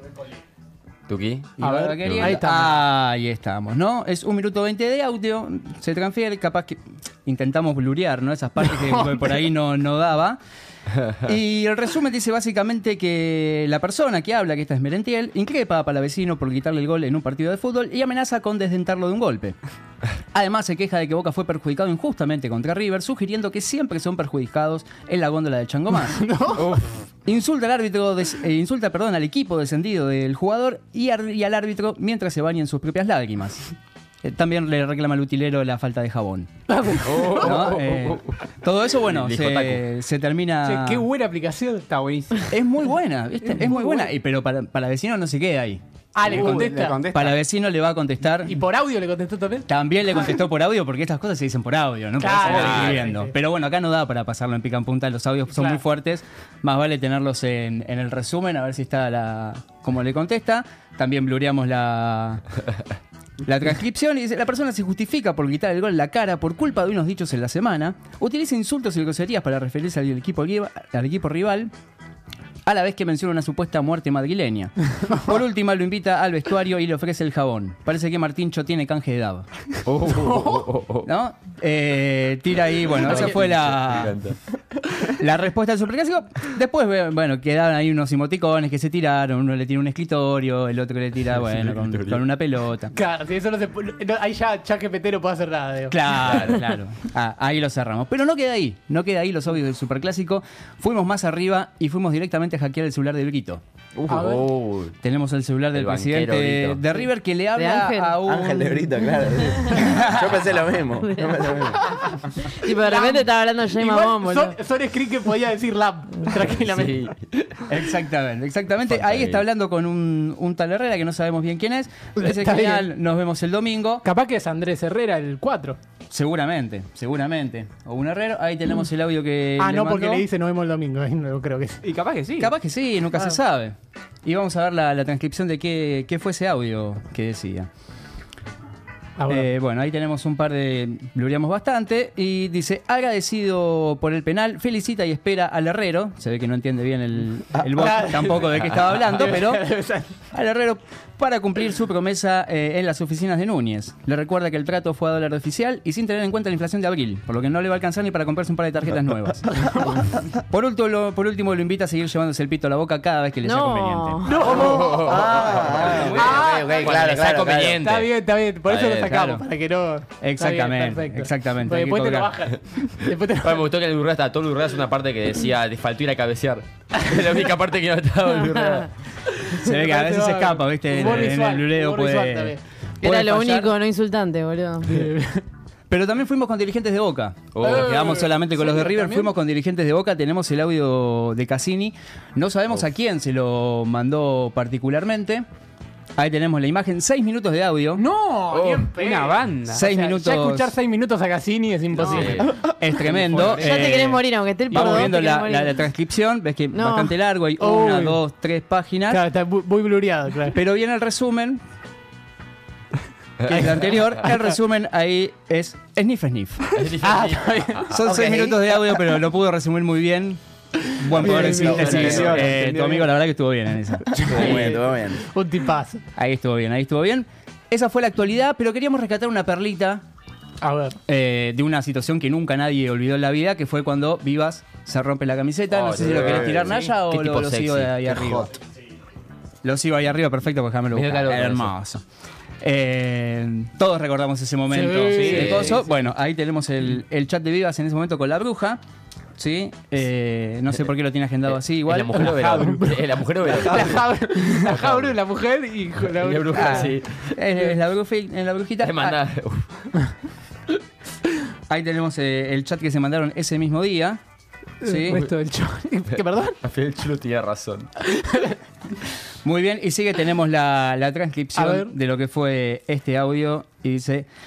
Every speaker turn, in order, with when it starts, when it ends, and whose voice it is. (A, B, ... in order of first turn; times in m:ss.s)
0:01.1-0:02.4 A
0:01.6-0:10.4 B
0:01.6-0:02.8 C
0:08.8-0:09.2 C
0:11.2-0:19.6 B
0:20.3-0:26.3 B
0:26.1-0:26.7 C
0:27.2-0:33.7 B
0:34.2-0:36.5 B
0:36.7-0:37.7 C
0:37.0-0:38.2 A
0:37.3-0:41.0 B
0:39.0-0:39.8 A
0:40.6-0:41.9 C
0:41.9-0:42.5 D
0:42.5-0:48.6 B
0:43.5-0:44.1 C
0:46.1-0:47.0 C
0:46.2-0:47.4 D
0:48.4-0:49.7 C
0:49.7-1:02.4 B
0:52.2-0:53.3 C
0:55.5-0:55.8 C
1:03.4-1:11.7 B
1:12.6-1:19.4 B
1:19.8-1:21.1 A
1:20.1-1:20.7 C
1:21.0-1:24.2 B
1:23.0-1:24.4 A
1:25.1-1:32.9 B
1:31.4-1:32.2 A
1:32.9-1:36.3 C
1:35.9-1:43.6 B
1:36.3-1:36.6 A
1:44.0-1:44.9 A
1:44.1-1:44.4 C
1:45.0-1:48.9 B
1:45.7-1:46.8 A
1:47.5-1:48.3 E
1:48.2-1:51.8 F
1:49.9-1:50.3 B
1:51.2-1:51.6 E
1:52.4-1:54.5 E
1:52.7-1:57.1 C
1:56.6-1:57.6 A
1:57.7-2:04.0 B
1:58.9-1:59.4 A
2:02.2-2:02.8 C
2:04.0-2:05.8 C
2:06.1-2:10.2 B
2:09.6-2:11.8 C
2:11.8-2:12.5 D
2:12.4-2:17.7 B
2:19.2-2:19.5 C
2:19.3-2:29.6 B
2:27.8-2:30.1 C
2:30.3-2:39.7 B
2:39.6-2:40.0 C
2:40.5-2:44.2 B
2:43.4-2:44.3 E
2:44.2-2:45.2 C
2:44.5-2:48.1 A
2:44.6-2:47.8 F
2:46.2-2:46.9 C
2:47.8-2:53.6 C
2:48.7-2:49.2 A
2:49.0-2:49.4 B
2:50.2-2:52.3 B
2:53.4-2:58.9 A
2:58.4-2:58.8 E
2:59.6-3:03.7 B
2:59.6-3:02.6 C
3:03.0-3:05.1 E
3:04.8-3:05.4 C
3:05.9-3:15.4 B
3:07.5-3:08.2 A
3:07.6-3:09.3 C
3:16.2-3:18.0 B
3:18.0-3:22.5 C
3:18.5-3:19.8 D
3:19.7-3:20.7 B
3:22.0-3:22.7 A
3:22.6-3:29.2 B
3:23.5-3:25.8 E
3:26.7-3:27.2 E
3:27.6-3:28.2 C
3:29.1-3:30.6 C
3:30.5-3:31.6 B
3:33.5-3:36.8 B
3:36.8-3:38.0 A
3:37.0-3:37.9 C
3:37.9-3:44.6 B
3:38.0-3:39.0 F
3:41.2-3:42.6 F
3:41.2-3:42.4 C
3:42.0-3:42.3 A
3:44.1-3:46.0 C
3:44.2-3:45.2 F
3:46.2-3:50.0 B
3:50.6-3:51.0 C
3:51.1-3:58.5 B
3:55.7-3:58.5 A
3:59.6-4:02.0 B
4:00.9-4:01.7 A
4:02.6-4:08.8 B
4:04.7-4:05.7 C
4:05.0-4:05.7 D
4:05.1-4:05.8 A
4:09.4-4:12.6 B
4:11.5-4:15.1 A
4:12.2-4:13.0 C
4:13.5-4:16.9 C
4:16.0-4:17.4 A
4:16.5-4:19.2 B
4:18.8-4:19.6 A
4:21.7-4:24.2 B
4:24.8-4:25.2 B
4:24.8-4:26.6 C
4:26.6-4:27.9 A
4:28.2-4:28.5 C
4:29.4-4:34.3 B
4:31.5-4:31.9 C